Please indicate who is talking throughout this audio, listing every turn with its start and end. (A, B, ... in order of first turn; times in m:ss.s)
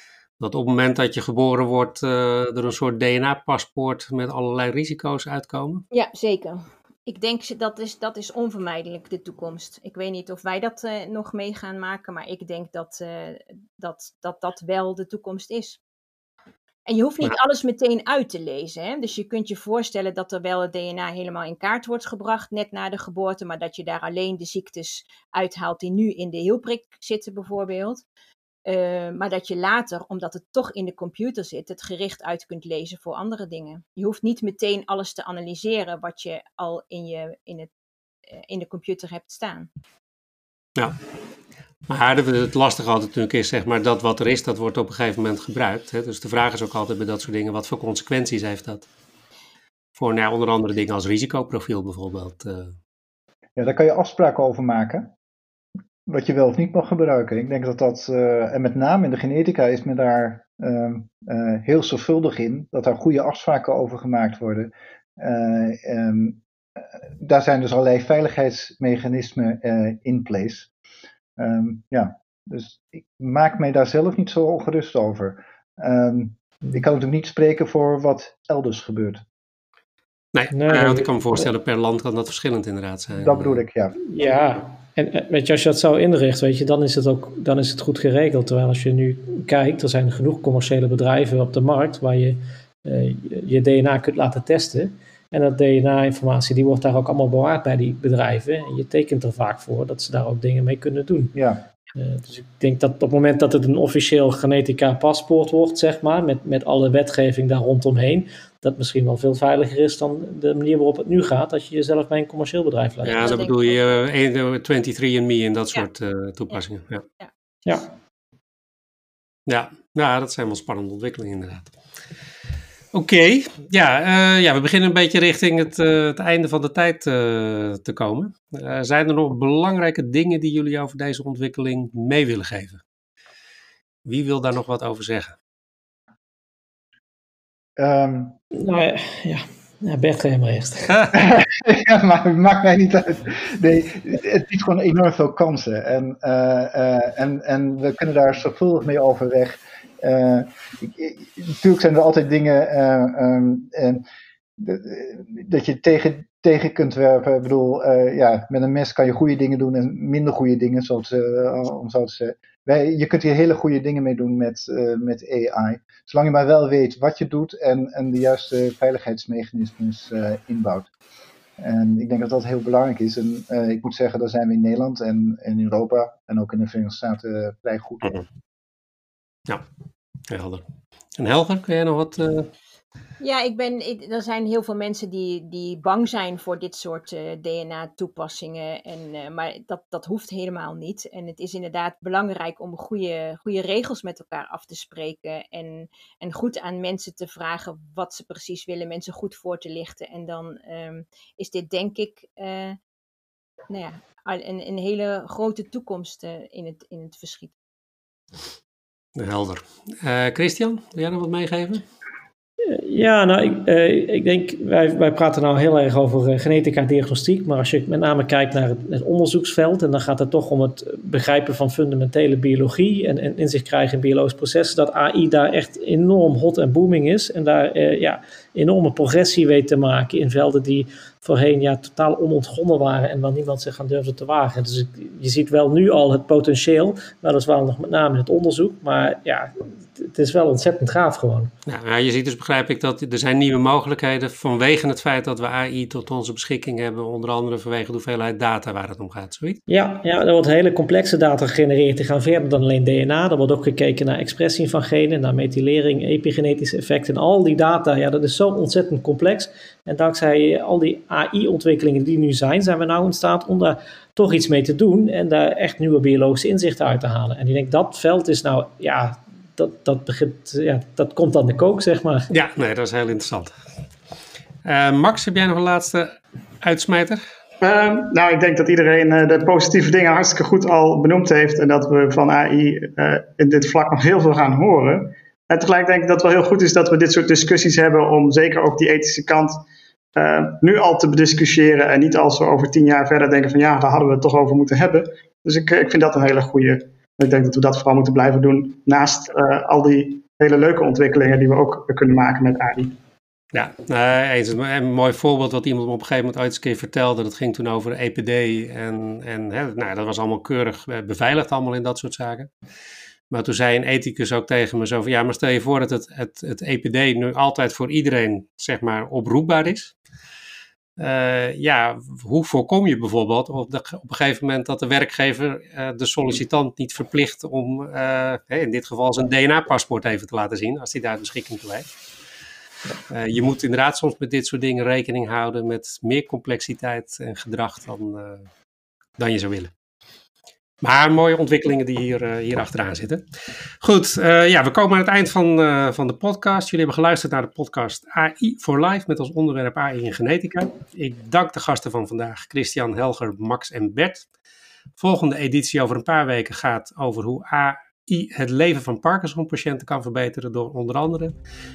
0:00.4-0:05.8 A
0:05.9-0:15.8 B
0:16.9-0:28.0 B
0:28.7-0:37.7 B
0:38.4-0:39.7 B
0:41.9-0:48.9 A
0:50.0-0:52.7 A
0:53.6-0:55.1 C
0:56.1-1:06.4 C
1:07.0-1:10.7 C
1:11.4-1:19.2 C
1:20.3-1:23.6 A
1:20.5-1:21.4 D
1:23.1-1:24.0 C
1:24.1-1:41.4 D
1:41.3-1:41.6 C
1:42.0-1:53.4 D
1:53.0-1:57.0 A
1:53.1-1:54.0 B
1:59.5-2:01.7 A
2:02.9-2:12.8 A
2:14.1-2:15.4 A
2:17.8-2:18.4 C
2:18.5-2:21.0 D
2:21.1-2:34.0 C
2:34.6-2:50.9 C
2:51.6-2:58.2 C
3:00.3-3:00.6 A
3:01.2-3:02.5 A
3:03.2-3:22.8 B
3:23.7-3:27.5 B
3:29.2-3:31.8 A
3:32.7-4:01.5 D
4:01.7-4:09.6 A
4:09.7-4:32.3 D
4:32.3-4:33.6 A
4:34.6-4:37.2 A
4:37.6-5:03.0 E
5:03.5-5:12.5 A
5:13.3-5:19.9 A
5:21.0-5:31.9 A
5:33.1-5:38.5 A
5:39.2-5:39.7 A
5:40.8-5:43.2 A
5:43.8-5:54.3 A
5:55.0-6:01.4 A